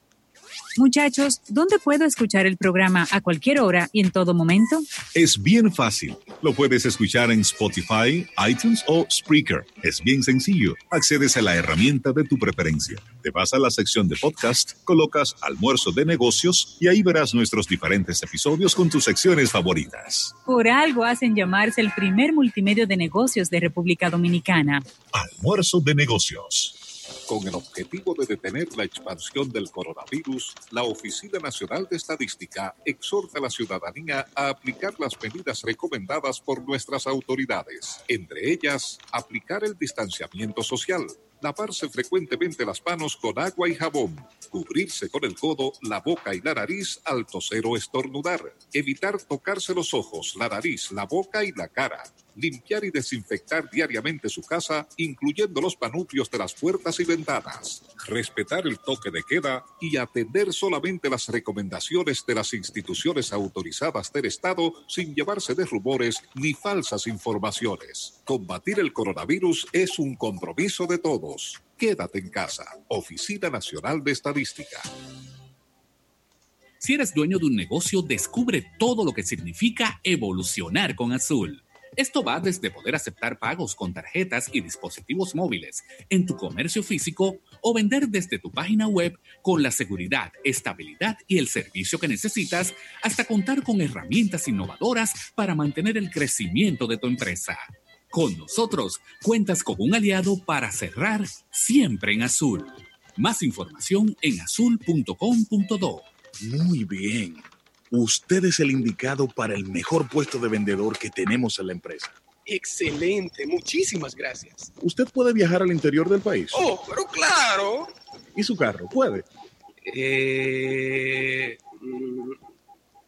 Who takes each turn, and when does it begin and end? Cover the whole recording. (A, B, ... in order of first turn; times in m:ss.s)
0:00.8-0:04.9 A
0:05.1-0:20.4 B
0:20.4-0:24.8 A
0:25.1-0:26.8 B
0:27.3-1:14.9 C
1:16.8-1:46.0 D
1:46.4-1:52.2 E
1:52.4-1:54.7 F
1:54.8-1:56.6 E
1:56.5-1:57.9 F
1:58.3-1:59.2 E
1:59.8-2:02.4 F